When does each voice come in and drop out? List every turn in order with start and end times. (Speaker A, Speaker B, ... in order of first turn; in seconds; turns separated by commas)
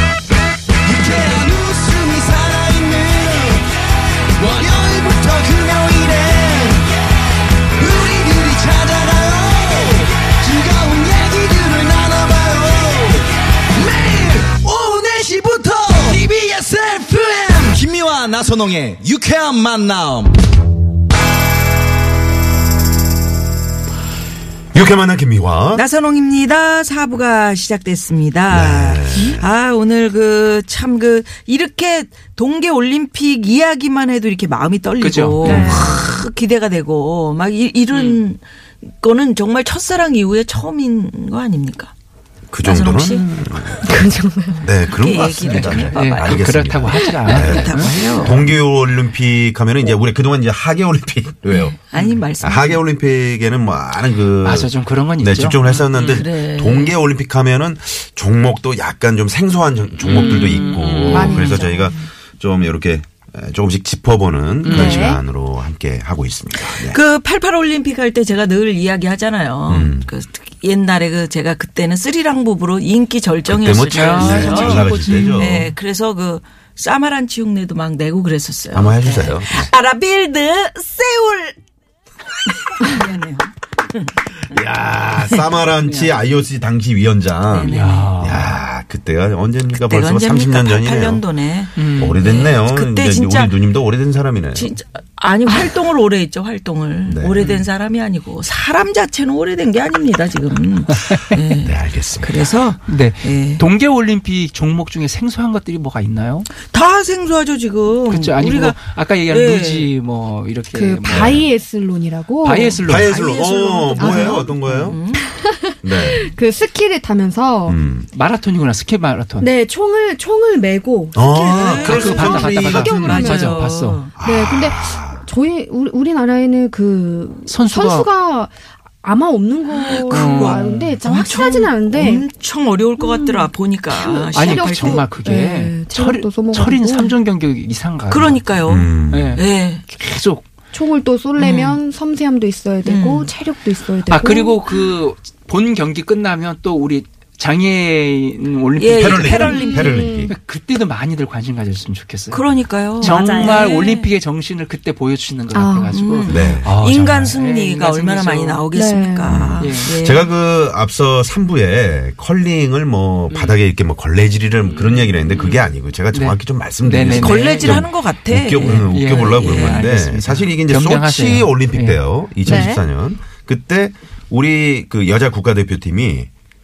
Speaker A: 0.8-3.7, Speaker A: 4.3-6.9, Speaker A: 7.8-20.4, Speaker B: 24.7-25.8, Speaker C: 25.7-41.9, Speaker B: 28.5-29.5, Speaker D: 35.0-35.9, Speaker E: 35.4-36.0, Speaker D: 37.9-38.2, Speaker B: 42.5-44.1, Speaker C: 42.6-43.3, Speaker E: 43.8-44.7, Speaker B: 44.6-51.8, Speaker C: 44.9-46.5, Speaker D: 45.4-48.5, Speaker C: 47.3-48.5, Speaker C: 51.5-52.8, Speaker B: 52.4-67.0, Speaker D: 54.4-56.2, Speaker C: 55.9-57.0, Speaker D: 60.0-61.7, Speaker E: 60.0-61.9, Speaker D: 64.6-65.0, Speaker E: 64.7-65.2, Speaker C: 66.7-81.6, Speaker B: 69.7-70.1, Speaker B: 73.5-75.7, Speaker D: 73.9-75.8, Speaker B: 78.7-79.7, Speaker C: 82.5-84.6, Speaker B: 84.5-91.2, Speaker D: 85.8-86.1, Speaker C: 87.5-88.2, Speaker D: 87.7-88.6, Speaker C: 89.7-93.6, Speaker D: 91.8-92.3, Speaker B: 91.8-94.7, Speaker C: 94.5-103.7, Speaker B: 97.1-97.5, Speaker B: 101.7-102.5, Speaker D: 102.8-106.5, Speaker C: 106.6-109.9, Speaker D: 108.1-111.5, Speaker E: 110.7-112.8, Speaker B: 111.1-111.5, Speaker D: 112.4-113.2, Speaker B: 112.9-115.0, Speaker C: 113.0-115.3, Speaker E: 114.0-114.5, Speaker E: 115.3-117.8, Speaker B: 115.8-116.2, Speaker B: 117.7-118.1, Speaker D: 118.1-119.5, Speaker E: 119.4-123.6, Speaker B: 121.2-123.3, Speaker C: 121.5-122.2, Speaker D: 121.8-124.0, Speaker C: 122.8-124.1, Speaker E: 124.2-132.3, Speaker B: 124.2-125.2, Speaker D: 127.5-128.1, Speaker C: 129.7-135.1, Speaker D: 130.1-131.0, Speaker E: 133.0-137.2, Speaker D: 134.1-138.5, Speaker C: 138.1-139.8, Speaker B: 138.7-139.4, Speaker D: 139.1-140.5, Speaker E: 140.7-144.6, Speaker C: 141.4-141.8, Speaker C: 142.8-143.3, Speaker D: 144.1-149.8, Speaker C: 148.8-150.0, Speaker B: 149.0-150.3, Speaker E: 149.4-150.3, Speaker D: 150.3-158.7, Speaker C: 152.3-153.7, Speaker E: 153.0-154.1, Speaker E: 155.5-156.3, Speaker C: 155.9-160.3, Speaker B: 156.3-156.8, Speaker E: 158.7-159.4, Speaker B: 159.2-176.3, Speaker D: 159.6-160.0, Speaker D: 163.3-163.6, Speaker D: 164.7-167.9, Speaker C: 167.1-169.9, Speaker D: 168.6-172.0, Speaker E: 172.4-172.8